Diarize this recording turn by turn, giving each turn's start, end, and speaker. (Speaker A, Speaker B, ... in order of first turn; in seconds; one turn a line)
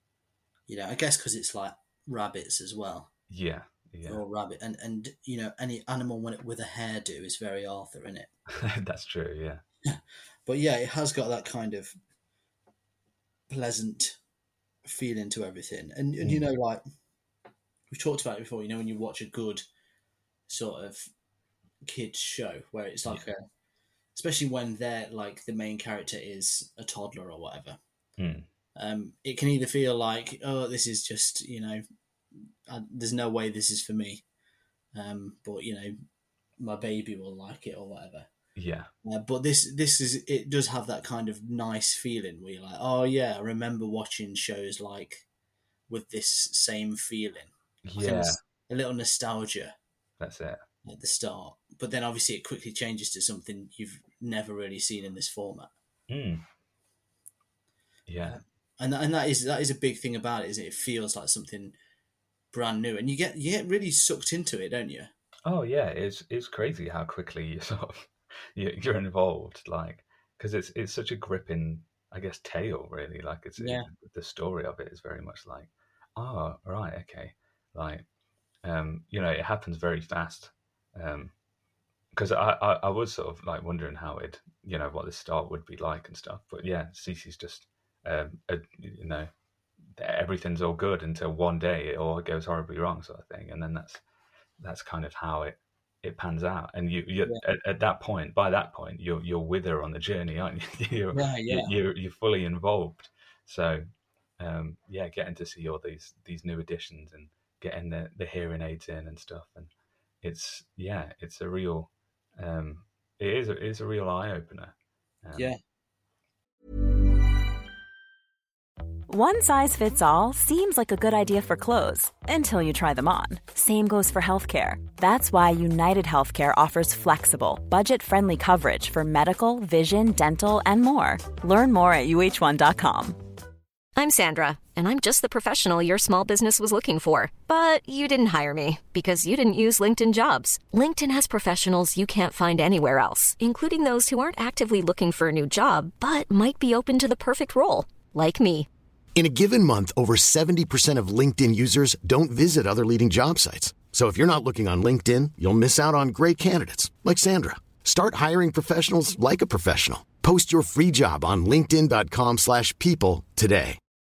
Speaker A: 0.7-3.1
Speaker B: 3.3-4.2
Speaker A: 4.1-8.3
Speaker B: 8.6-9.6
Speaker A: 9.9-12.0
Speaker A: 13.5-14.2
Speaker A: 14.8-16.8
Speaker A: 17.9-19.6
Speaker A: 20.5-21.1
Speaker A: 21.9-23.4
Speaker A: 24.1-27.8
Speaker B: 28.2-28.5
Speaker A: 28.8-31.8
Speaker A: 32.7-34.2
Speaker A: 34.9-36.0
Speaker A: 36.6-38.3
Speaker B: 38.6-38.9
Speaker A: 39.0-45.3
Speaker A: 45.9-49.8
Speaker B: 47.9-48.4
Speaker B: 50.2-50.6
Speaker A: 50.9-55.7
Speaker B: 56.1-56.4
Speaker B: 58.1-58.4
Speaker A: 58.2-61.8
Speaker A: 62.5-65.1
Speaker B: 65.5-78.0
Speaker A: 73.6-73.9
Speaker B: 78.6-81.3
Speaker B: 82.1-89.3
Speaker B: 89.9-94.0
Speaker B: 94.6-103.8
Speaker A: 101.1-101.7
Speaker B: 104.4-109.7
Speaker B: 110.2-115.5
Speaker A: 115.3-115.6
Speaker C: 119.1-133.2
Speaker D: 134.0-148.7
Speaker E: 149.2-163.8